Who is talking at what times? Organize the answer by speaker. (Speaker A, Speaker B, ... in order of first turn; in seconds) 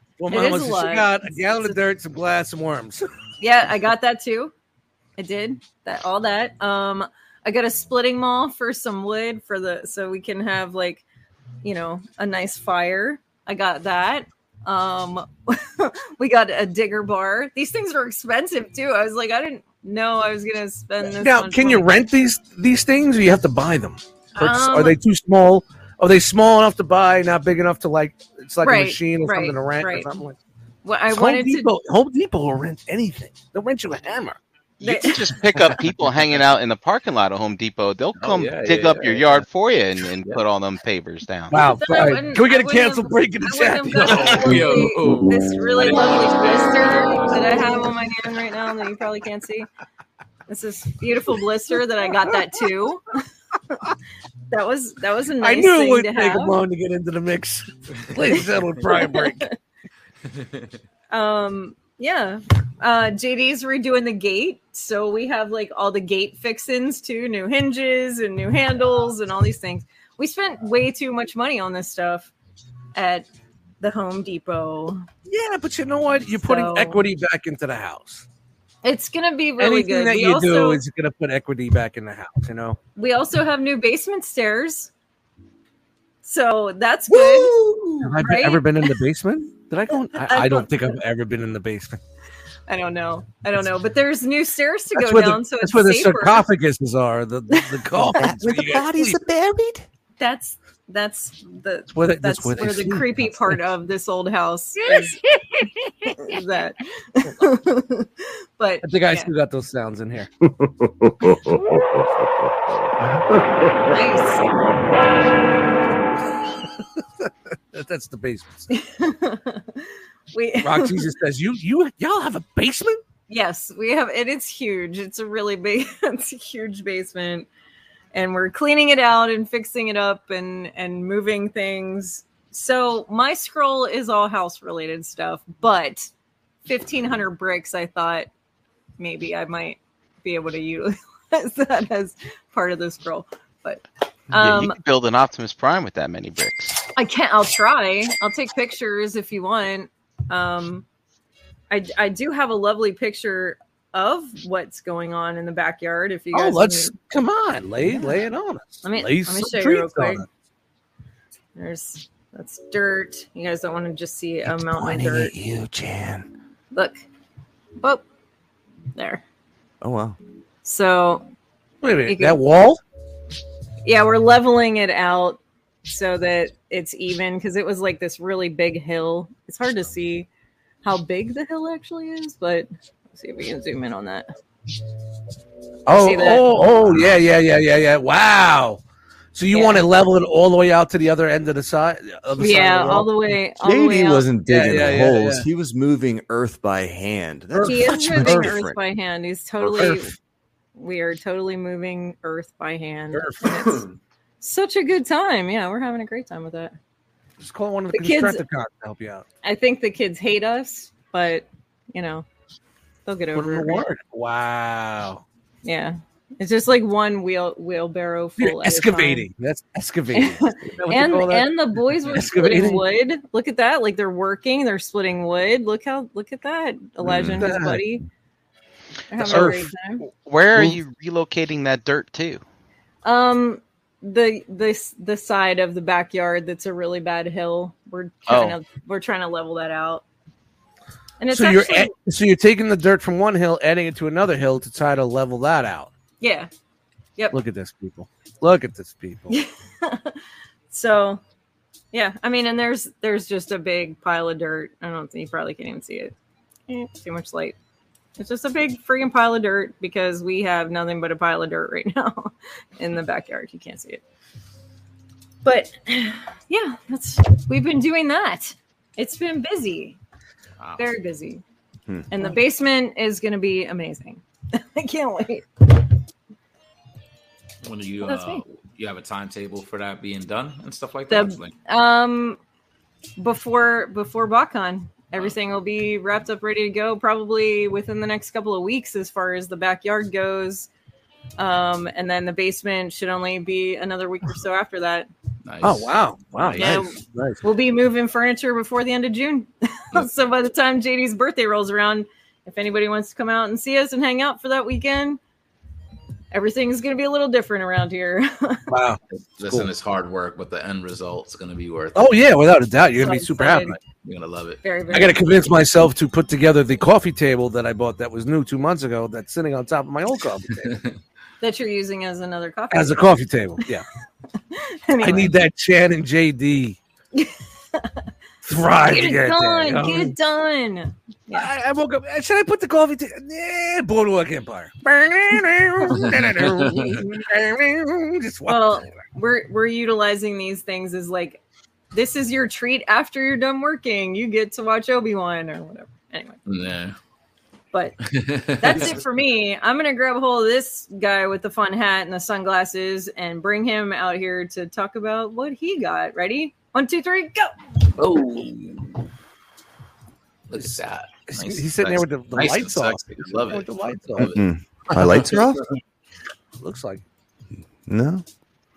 Speaker A: 0.2-3.1, 21.0-30.4, 31.1-34.4, 41.5-44.6, 55.4-59.5, 75.3-78.2, 79.6-82.8, 88.0-92.0, 94.9-99.2, 101.9-103.5, 104.9-106.2, 108.8-110.3, 117.0-118.7, 120.6-123.0, 156.3-160.2, 171.8-172.8, 185.8-188.8, 189.3-193.1, 194.5-195.5, 197.5-198.5, 199.6-200.1, 207.4-209.2, 213.3-215.2, 218.4-222.8, 227.4-227.8, 229.2-229.7, 241.3-245.9, 247.3-249.3, 295.6-297.4, 308.7-309.7, 311.9-313.8, 314.9-320.8, 322.7-323.8, 325.0-326.8, 328.4-330.1, 331.3-338.9, 361.3-364.4, 366.6-367.0
Speaker B: 0.3-1.8, 3.4-4.5, 5.2-11.0, 11.6-21.9, 24.4-25.0, 28.6-30.1, 30.8-31.7, 34.8-35.4, 41.5-49.7, 50.5-53.2, 54.5-56.6, 58.9-59.5, 61.1-72.3, 72.9-73.3, 73.8-75.1, 76.4-77.0, 78.8-80.8, 83.0-84.9, 86.2-87.6, 88.2-88.9, 90.2-90.7, 92.7-96.5, 100.2-105.2, 106.1-109.3, 113.9-114.5, 118.7-121.0, 123.3-127.5, 128.1-136.1, 136.6-138.3, 139.0-144.8, 146.9-150.8, 151.7-156.9, 157.9-158.2, 158.8-160.2, 161.6-165.3, 166.7-167.0, 168.9-169.2, 170.6-171.2, 172.1-172.4, 173.8-180.3, 180.8-184.2, 185.9-186.6, 189.5-189.9, 192.4-194.3, 197.6-200.1, 200.7-203.8, 204.4-206.7, 207.9-208.4, 209.4-212.2, 213.1-213.8, 215.6-219.3, 220.1-228.0, 229.1-230.0, 233.0-240.0, 241.2-241.9, 246.2-246.5, 249.3-250.2, 250.7-251.2, 251.9-256.1, 256.7-257.6, 258.2-264.0, 265.4-270.0, 270.8-271.4, 272.1-275.8, 278.0-278.4, 281.1-282.4, 283.2-290.7, 291.4-295.1, 296.6-305.2, 306.3-308.6, 313.0-313.8, 314.6-315.2, 321.4-323.2, 324.5-325.4, 327.1-328.0, 328.8-331.5, 338.5-341.4, 341.9-346.4, 347.7-348.0, 348.6-357.5
Speaker C: 34.8-41.5, 144.3-146.8, 230.2-232.4, 238.3-238.6
Speaker D: 38.2-39.4, 44.0-47.9, 60.3-60.8, 203.1-204.0, 270.6-270.9, 277.6-281.6, 295.4-296.9, 309.4-312.1, 314.0-314.6, 320.6-321.0, 335.9-337.0, 346.4-346.9, 348.0-349.0, 358.0-359.0, 360.5-364.4, 364.9-365.6
Speaker E: 45.1-45.5, 87.1-88.2, 98.1-99.8, 110.5-112.5, 164.4-166.3, 169.8-170.2, 193.6-198.8, 227.0-227.5, 364.2-365.6, 367.9-368.2